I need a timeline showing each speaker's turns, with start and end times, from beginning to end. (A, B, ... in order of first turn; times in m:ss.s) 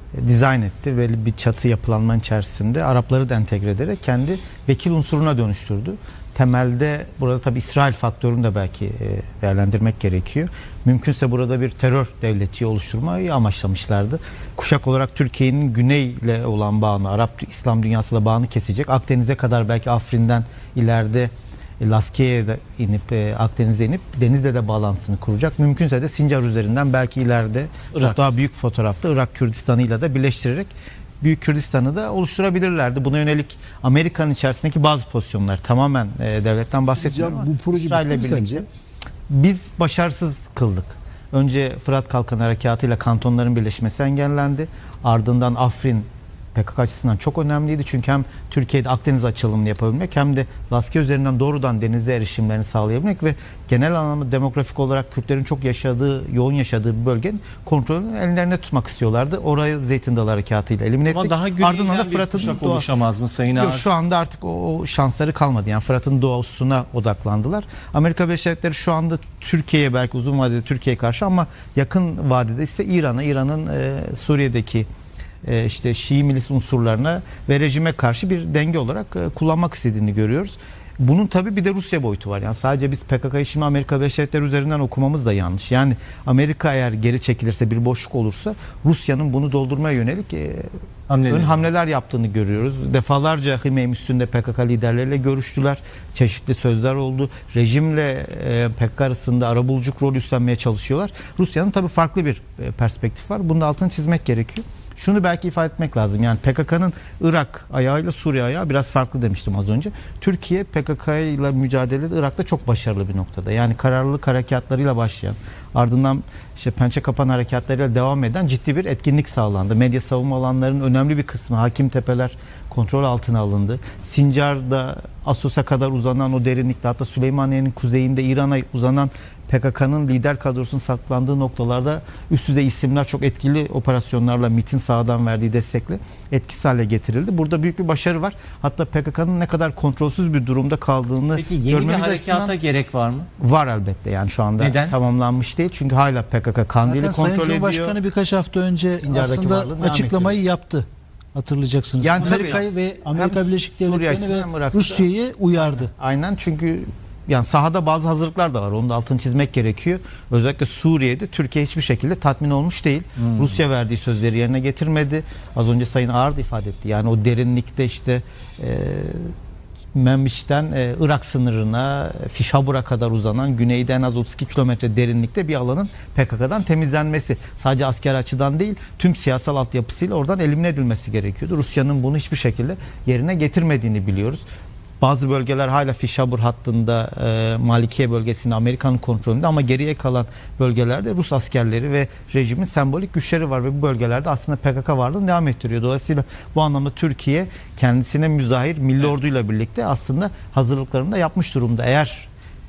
0:00.1-0:38.7 A
0:37.0-0:38.6 B
0:39.3-1:02.9 A
1:01.1-1:03.9 C
1:03.5-1:14.9 A
1:15.4-1:30.7 A
1:31.1-1:31.6 C
1:31.3-2:22.6 A
2:21.3-2:23.3 C
2:23.4-2:28.0 A
2:24.6-2:25.0 C
2:26.9-2:35.9 B
2:29.0-2:30.4 A
2:32.0-2:49.3 A
2:32.2-2:32.6 C
2:49.9-3:04.4 A
3:05.0-3:22.3 A